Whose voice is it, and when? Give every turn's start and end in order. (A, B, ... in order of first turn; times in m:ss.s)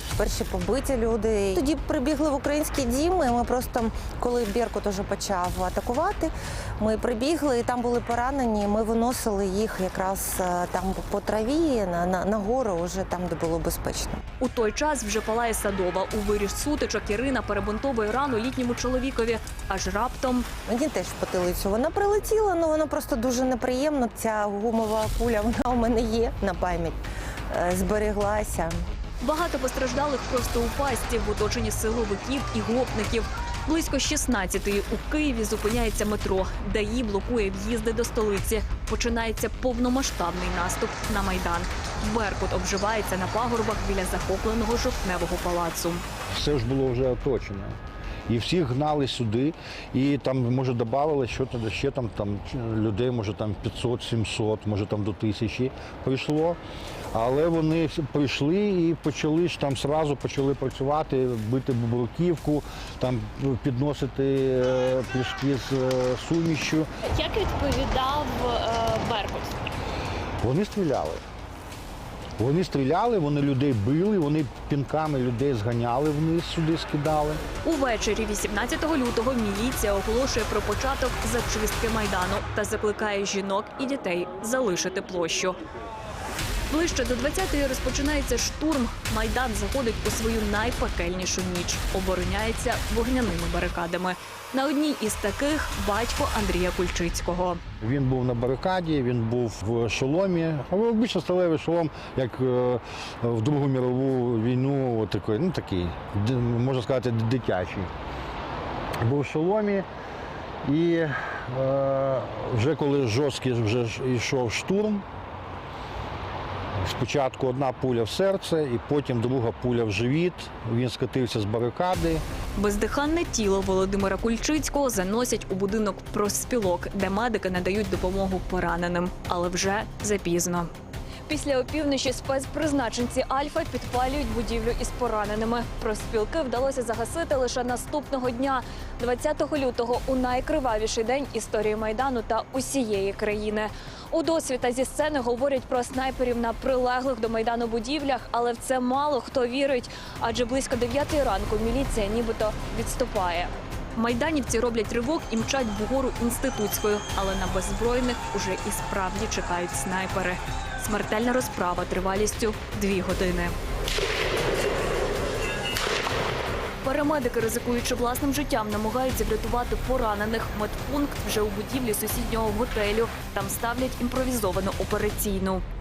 0:00.2-0:14.2 A
0:14.4-0:20.4 B
0:20.7-0:27.0 A
0:27.5-0:28.7 A
0:29.2-0:46.0 B
0:46.3-0:47.8 C
0:48.3-0:56.6 C
0:57.1-1:06.9 C
1:07.1-1:09.5 B
1:10.4-1:11.2 C
1:12.4-1:17.4 C
1:17.6-1:25.6 B
1:26.7-1:37.6 B
1:37.8-1:47.9 C
1:49.0-1:49.9 C
1:50.6-1:55.0 C
1:56.8-2:02.2 C
2:02.6-2:10.7 B
2:11.3-2:43.5 B
2:46.8-2:55.6 B